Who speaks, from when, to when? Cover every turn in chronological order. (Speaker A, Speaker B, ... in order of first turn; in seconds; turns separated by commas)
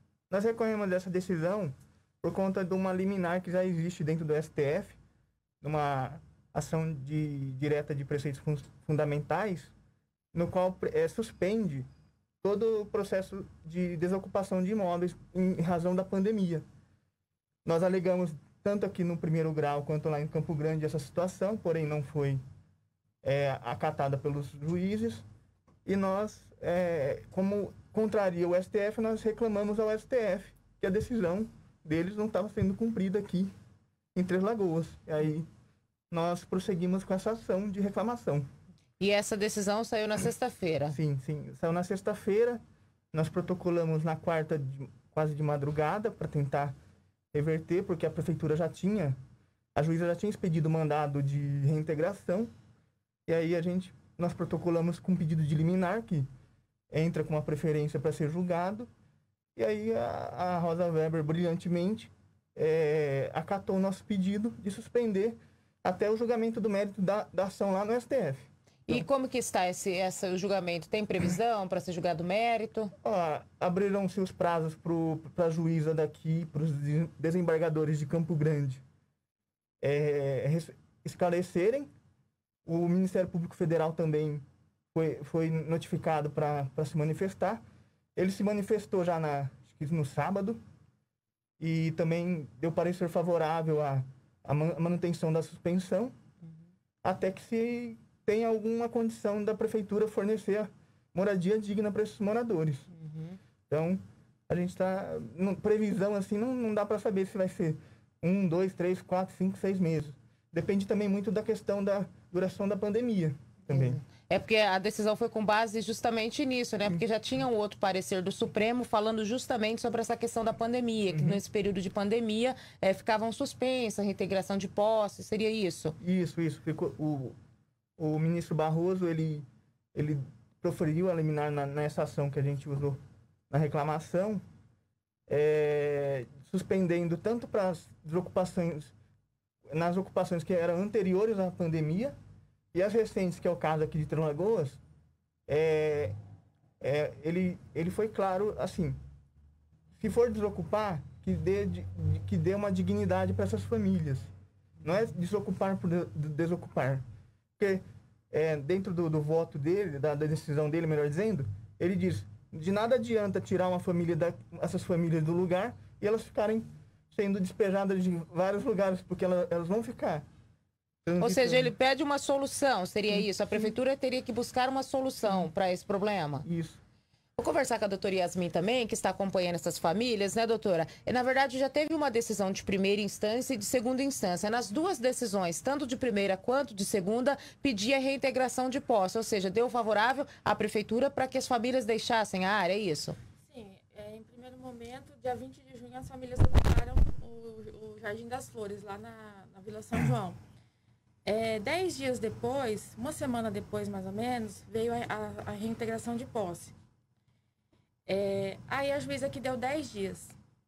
Speaker A: 0.3-5.0, Speaker A: 5.6-9.7, Speaker A: 10.3-11.9, Speaker A: 12.4-16.6, Speaker A: 17.6-22.4, Speaker A: 23.2-25.2, Speaker A: 25.9-33.5, Speaker A: 34.1-35.5, Speaker A: 36.1-38.5, Speaker B: 39.0-41.0, Speaker A: 40.9-42.6, Speaker A: 43.1-46.8, Speaker A: 47.3-49.2, Speaker A: 49.8-52.5, Speaker A: 53.3-56.3, Speaker A: 56.9-58.9, Speaker A: 59.6-69.1, Speaker B: 68.9-72.9, Speaker A: 73.0-78.8, Speaker A: 79.8-81.9, Speaker A: 82.7-84.4, Speaker A: 84.9-87.6, Speaker A: 88.2-90.6, Speaker A: 91.6-96.2, Speaker A: 97.0-102.9, Speaker B: 102.9-103.4, Speaker A: 103.7-114.0, Speaker B: 113.7-126.0, Speaker A: 121.1-121.4, Speaker A: 126.0-127.3, Speaker A: 128.0-134.4, Speaker A: 135.3-138.9, Speaker A: 139.7-142.2, Speaker A: 142.7-144.8, Speaker A: 145.5-146.2, Speaker A: 146.8-149.0, Speaker A: 150.0-154.3, Speaker A: 154.8-157.0, Speaker A: 157.6-170.2, Speaker A: 171.1-171.7, Speaker B: 171.2-176.4, Speaker A: 173.1-173.7, Speaker A: 176.4-176.8, Speaker B: 177.4-193.2, Speaker C: 193.4-200.4, Speaker C: 201.2-206.8, Speaker C: 208.1-210.3